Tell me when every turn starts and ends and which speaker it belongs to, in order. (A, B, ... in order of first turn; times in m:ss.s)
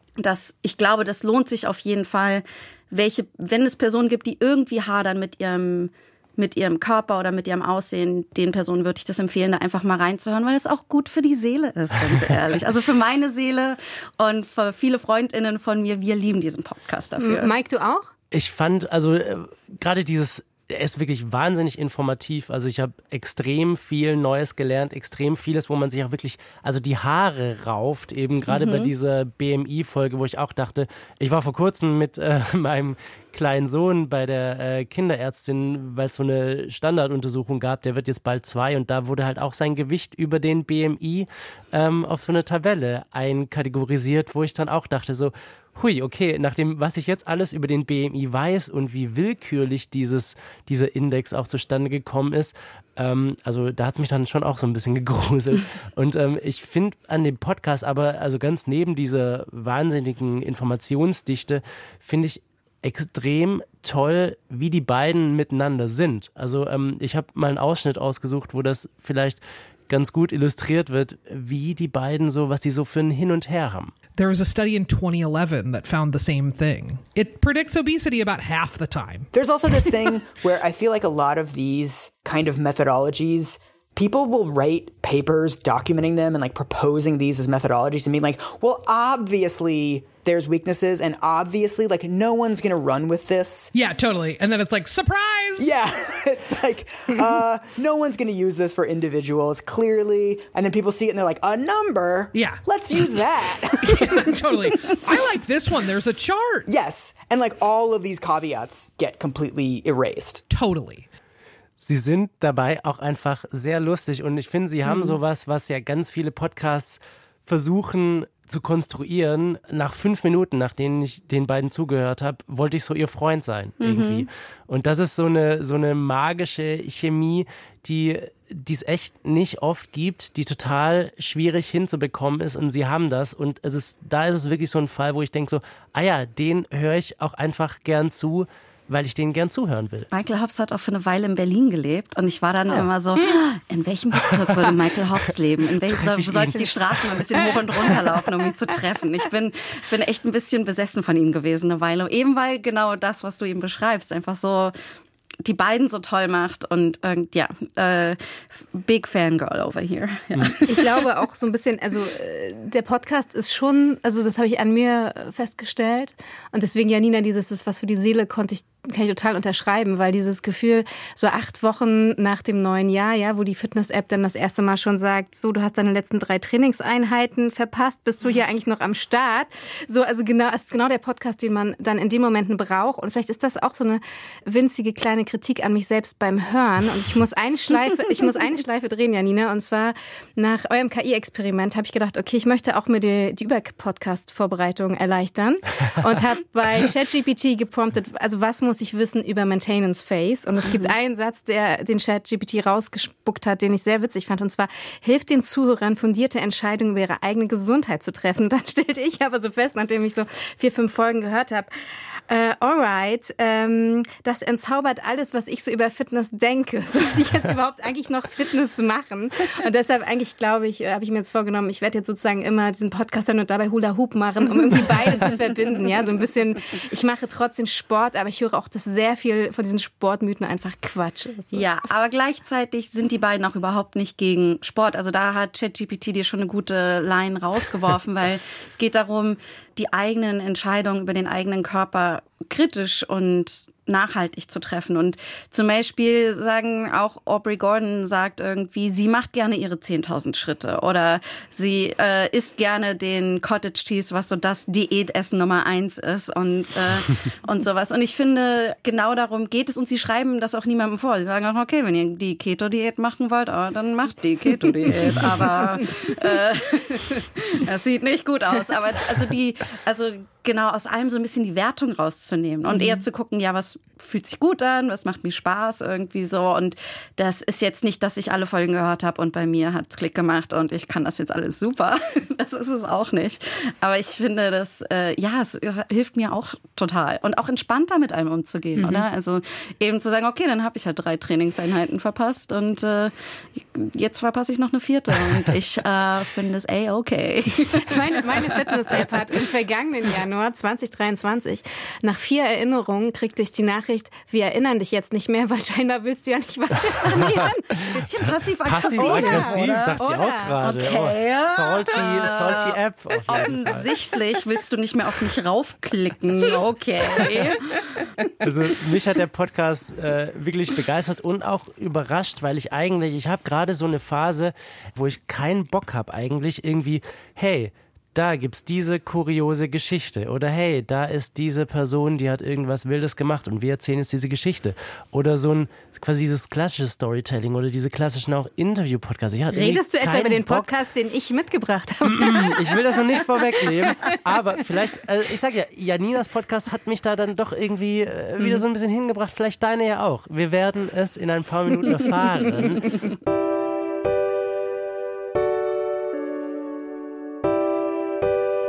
0:00.2-0:17.5 A
0:17.2-0:18.1 B
0:18.3-1:13.9 C
0:28.5-0:28.9 A
1:14.2-1:19.3 D
1:19.3-1:33.7 E
1:33.7-1:35.8 D
1:35.6-1:45.0 E
1:42.3-1:43.2 D
1:43.8-1:46.7 D
1:46.7-1:50.4 E
1:50.5-1:51.1 D
1:51.8-2:20.1 C
2:03.8-2:04.3 A
2:20.1-2:34.7 A
2:25.9-2:27.2 C
2:35.4-2:41.0 A
2:40.7-3:31.7 B
3:32.3-3:51.6 B
3:51.5-4:58.4 A
4:32.7-4:33.0 B
4:48.8-4:49.1 B
4:57.8-5:08.0 B
5:07.8-5:10.0 A
5:08.3-5:13.9 C
5:08.8-5:10.6 B
5:10.6-5:12.8 A
5:13.3-5:17.8 A
5:18.4-5:40.7 C
5:39.5-5:44.0 B
5:42.0-5:53.0 C